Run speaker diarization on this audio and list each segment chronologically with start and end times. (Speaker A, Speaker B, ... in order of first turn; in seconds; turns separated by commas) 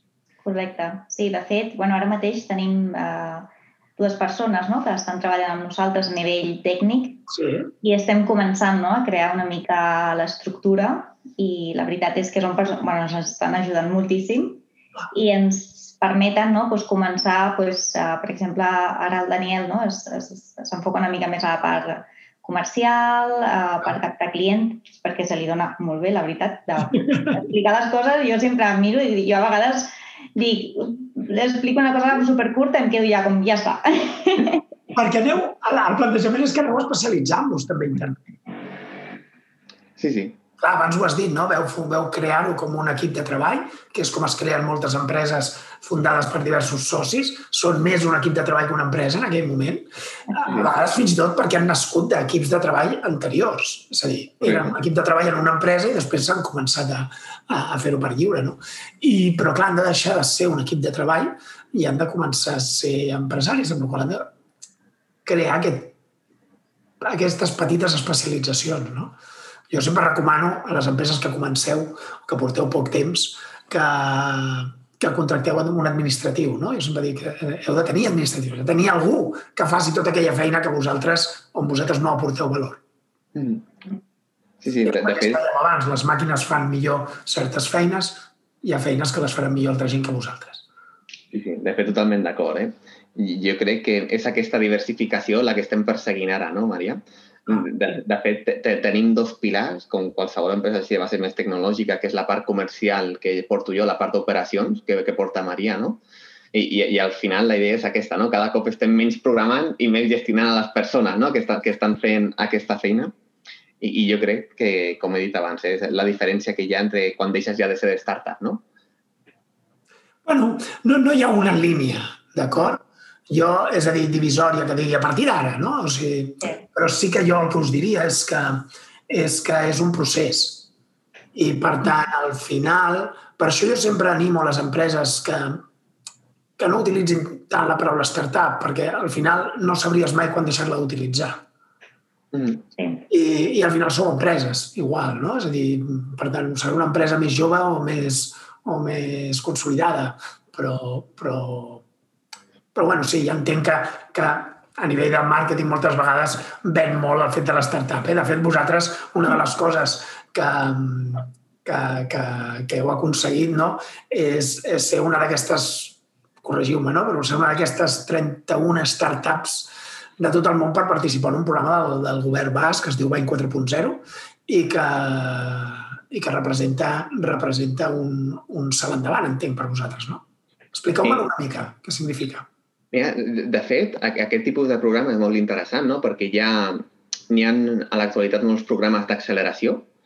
Speaker A: 0.4-7.2, Speaker B: 7.3-7.7, Speaker A: 7.8-34.6, Speaker B: 34.9-38.4, Speaker C: 40.0-40.4, Speaker B: 40.6-64.3, Speaker C: 50.4-50.7, Speaker C: 54.4-54.7, Speaker B: 65.2-66.0, Speaker B: 67.0-69.2, Speaker B: 69.7-82.8, Speaker C: 83.3-83.7, Speaker C: 84.6-85.4, Speaker B: 84.8-90.6, Speaker C: 91.3-106.0, Speaker C: 106.5-113.1, Speaker C: 113.8-118.6, Speaker B: 120.2-130.7, Speaker B: 131.3-135.6, Speaker B: 136.6-141.4, Speaker C: 142.3-142.6, Speaker A: 142.8-143.0, Speaker B: 143.1-151.8, Speaker B: 152.7-182.5, Speaker C: 181.0-181.3, Speaker C: 182.9-189.9